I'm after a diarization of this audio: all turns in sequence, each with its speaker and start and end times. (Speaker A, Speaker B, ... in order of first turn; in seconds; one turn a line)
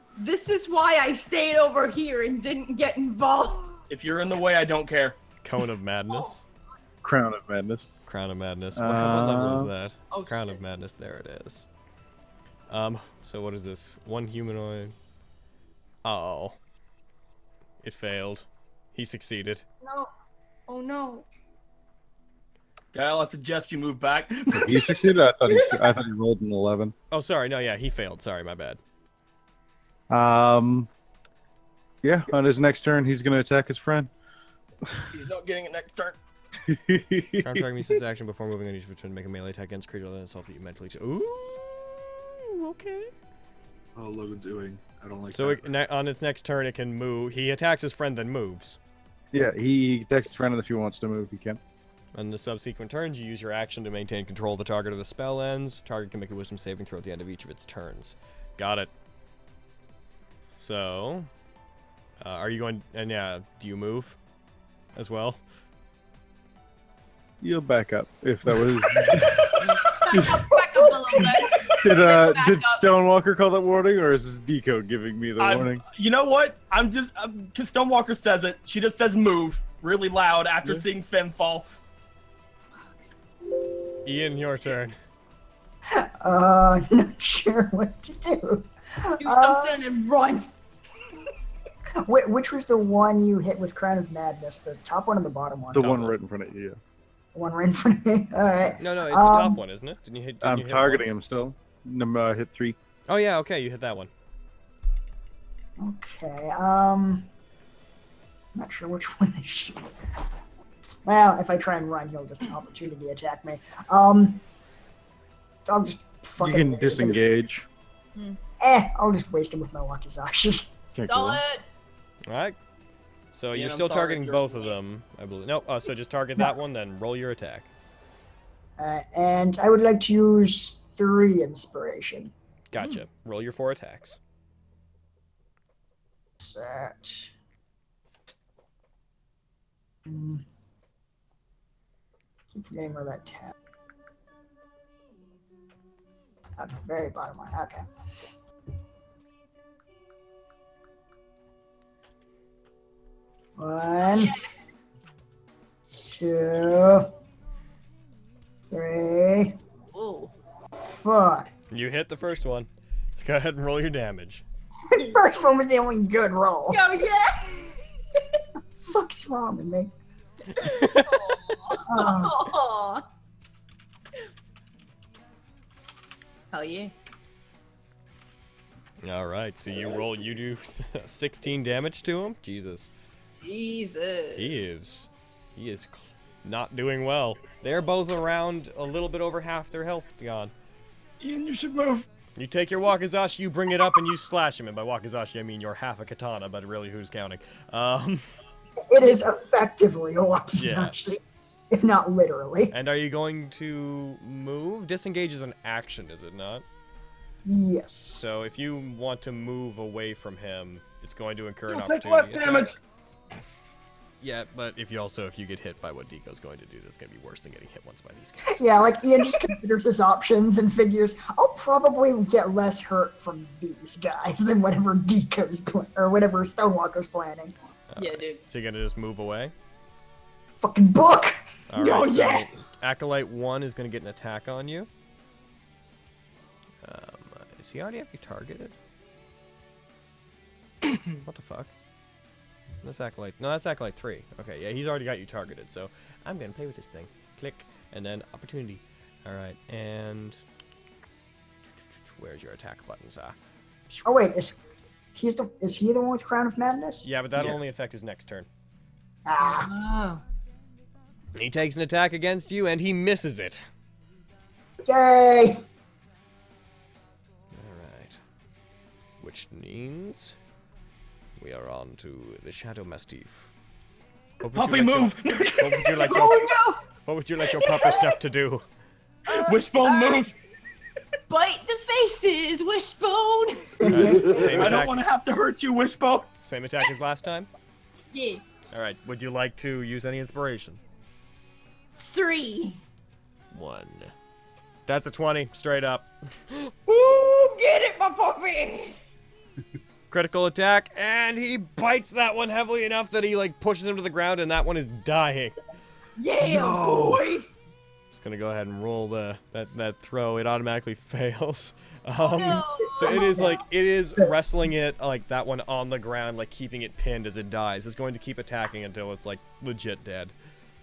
Speaker A: 0.2-3.8
Speaker B: 3.9-5.2
Speaker C: 5.4-6.5
Speaker D: 7.0-7.9
Speaker C: 8.1-11.7
Speaker D: 8.8-9.7
Speaker A: 10.1-10.6
Speaker C: 12.7-14.9
Speaker C: 16.0-16.6
Speaker C: 17.8-19.6
Speaker A: 19.8-20.1
Speaker A: 20.7-21.3
Speaker B: 22.9-25.1
Speaker D: 24.5-26.9
Speaker C: 27.1-28.8
Speaker D: 30.1-30.9
Speaker D: 32.0-34.1
Speaker B: 35.1-36.2
Speaker D: 36.7-38.0
Speaker C: 37.4-43.1
Speaker E: 44.0-45.7
Speaker C: 45.3-48.8
Speaker D: 49.3-51.6
Speaker C: 52.1-58.9
Speaker C: 60.6-61.3
Speaker C: 62.2-64.2
Speaker C: 65.0-65.4
Speaker D: 67.4-70.6
Speaker A: 69.8-72.9
Speaker D: 71.7-75.8
Speaker B: 75.4-81.7
Speaker C: 84.0-85.0
Speaker F: 85.9-89.8
Speaker A: 89.2-90.5
Speaker F: 92.0-96.2
Speaker D: 95.7-96.8
Speaker F: 97.3-99.6
Speaker C: 98.8-101.1
Speaker D: 100.4-102.8
Speaker C: 103.1-104.1
Speaker F: 105.8-107.3
Speaker F: 108.5-109.9
Speaker F: 111.0-114.4
Speaker F: 115.7-117.2
Speaker D: 116.4-117.7
Speaker F: 118.6-120.7
Speaker D: 121.0-121.4
Speaker A: 121.0-121.6
Speaker C: 122.3-122.6
Speaker C: 123.3-127.7
Speaker B: 123.5-124.7
Speaker F: 128.8-132.3
Speaker C: 132.7-134.2
Speaker A: 132.8-133.0
Speaker F: 136.4-137.3
Speaker F: 140.1-140.4
Speaker F: 142.5-143.5
Speaker F: 146.6-147.9
Speaker F: 153.6-154.3
Speaker A: 154.1-154.4
Speaker F: 156.0-157.1
Speaker F: 158.7-159.6
Speaker A: 159.9-160.3
Speaker F: 160.8-161.5
Speaker C: 161.7-164.4
Speaker F: 164.9-166.9
Speaker A: 166.7-167.8
Speaker F: 168.8-169.9
Speaker C: 170.6-171.4
Speaker A: 170.6-173.1
Speaker F: 171.9-172.6
Speaker A: 176.5-176.9
Speaker C: 179.0-182.9
Speaker A: 183.4-184.5
Speaker C: 184.4-190.5
Speaker B: 191.2-192.1
Speaker C: 192.4-198.2
Speaker F: 198.9-202.8
Speaker C: 200.6-201.0
Speaker C: 202.7-206.7
Speaker F: 207.4-208.2
Speaker C: 208.1-212.8
Speaker B: 211.7-212.8
Speaker C: 214.2-218.6
Speaker F: 218.5-227.5
Speaker C: 227.9-229.5
Speaker A: 228.0-228.4
Speaker F: 230.6-232.4
Speaker C: 231.7-234.9
Speaker C: 236.8-238.8
Speaker C: 241.2-241.7
Speaker C: 242.8-250.4
Speaker C: 252.1-253.4
Speaker F: 254.0-254.6
Speaker F: 255.2-257.1
Speaker C: 257.0-258.5
Speaker F: 259.2-259.7
Speaker A: 259.4-260.2
Speaker C: 261.4-263.7
Speaker F: 264.8-265.6
Speaker C: 267.5-268.2
Speaker C: 269.2-270.4
Speaker C: 271.4-273.5
Speaker C: 274.4-278.6
Speaker B: 274.5-276.0
Speaker A: 276.0-276.9
Speaker A: 277.4-278.1
Speaker A: 279.3-280.2
Speaker B: 279.3-280.3
Speaker A: 281.3-283.9
Speaker F: 283.8-284.4
Speaker C: 283.9-285.0
Speaker E: 284.1-284.4
Speaker B: 284.4-286.3
Speaker C: 286.4-287.5
Speaker A: 288.1-288.4
Speaker C: 288.7-290.8
Speaker A: 292.0-292.8
Speaker C: 293.5-294.1
Speaker C: 294.9-296.7
Speaker A: 296.9-299.0
Speaker C: 300.1-305.6
Speaker A: 306.2-307.5
Speaker C: 308.1-320.3
Speaker A: 312.2-313.6
Speaker F: 313.0-313.7